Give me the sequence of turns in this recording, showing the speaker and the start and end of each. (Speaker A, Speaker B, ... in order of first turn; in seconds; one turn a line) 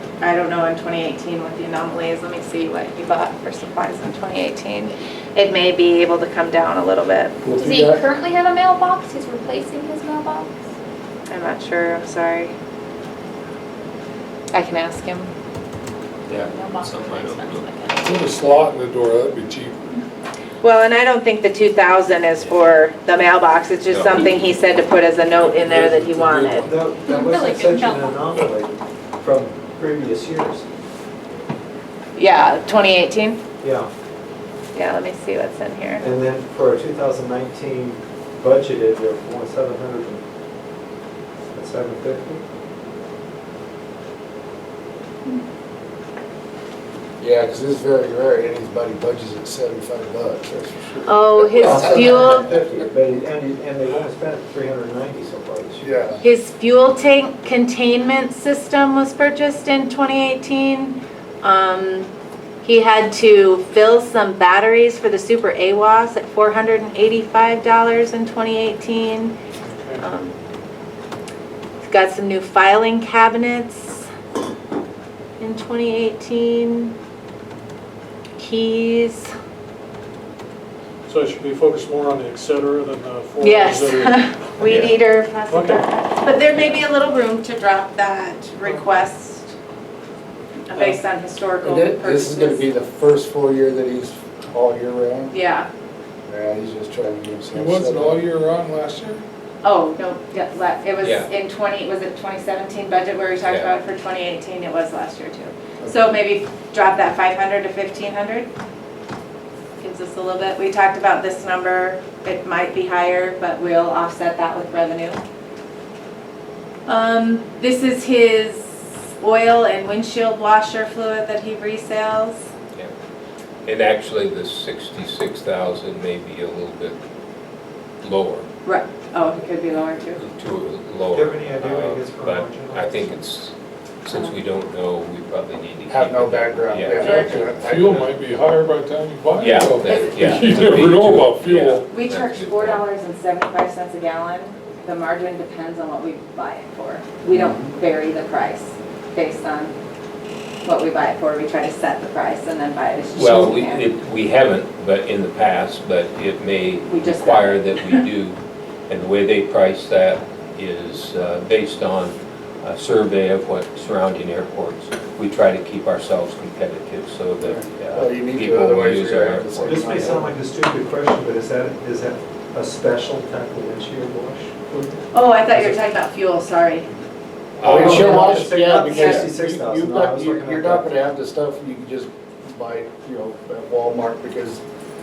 Speaker A: 0.2-7.4
Speaker B: 7.4-8.1
Speaker C: 7.6-10.5
Speaker A: 11.3-12.5
Speaker A: 14.5-15.3
Speaker D: 16.3-18.3
Speaker C: 16.5-18.2
Speaker E: 18.0-20.0
Speaker A: 20.6-26.7
Speaker D: 22.4-22.7
Speaker D: 23.9-24.6
Speaker D: 25.4-26.6
Speaker F: 26.6-30.6
Speaker C: 27.1-28.1
Speaker A: 32.2-33.4
Speaker F: 33.6-33.9
Speaker A: 34.7-36.0
Speaker F: 36.0-40.2
Speaker F: 41.5-42.4
Speaker B: 47.2-52.8
Speaker A: 51.1-52.5
Speaker F: 51.5-56.2
Speaker B: 55.8-56.2
Speaker A: 56.2-62.1
Speaker A: 62.6-69.4
Speaker G: 69.7-70.0
Speaker A: 70.0-70.3
Speaker A: 71.8-74.1
Speaker A: 75.4-76.9
Speaker A: 78.4-79.3
Speaker G: 81.1-84.7
Speaker A: 83.4-89.5
Speaker D: 84.7-84.9
Speaker G: 85.5-85.9
Speaker A: 90.7-92.7
Speaker B: 91.6-95.3
Speaker A: 95.3-95.7
Speaker B: 96.3-98.2
Speaker E: 97.5-99.2
Speaker A: 99.6-108.5
Speaker D: 101.0-101.3
Speaker D: 103.4-103.7
Speaker B: 105.8-106.2
Speaker A: 109.8-115.2
Speaker A: 116.9-122.5
Speaker D: 123.7-127.0
Speaker D: 128.0-128.5
Speaker A: 128.7-130.2
Speaker D: 130.2-137.7
Speaker F: 131.1-133.2
Speaker A: 134.1-134.4
Speaker B: 135.9-138.0
Speaker A: 137.0-137.5
Speaker E: 137.6-141.8
Speaker D: 139.4-142.9
Speaker A: 139.8-140.7
Speaker A: 141.9-149.8
Speaker B: 147.3-147.7
Speaker A: 150.6-153.8
Speaker D: 153.2-170.2
Speaker A: 156.9-158.0
Speaker B: 167.4-170.3
Speaker F: 169.7-174.9
Speaker A: 175.1-176.9
Speaker D: 177.6-178.2
Speaker F: 177.6-180.9
Speaker B: 177.6-184.6
Speaker A: 178.8-179.2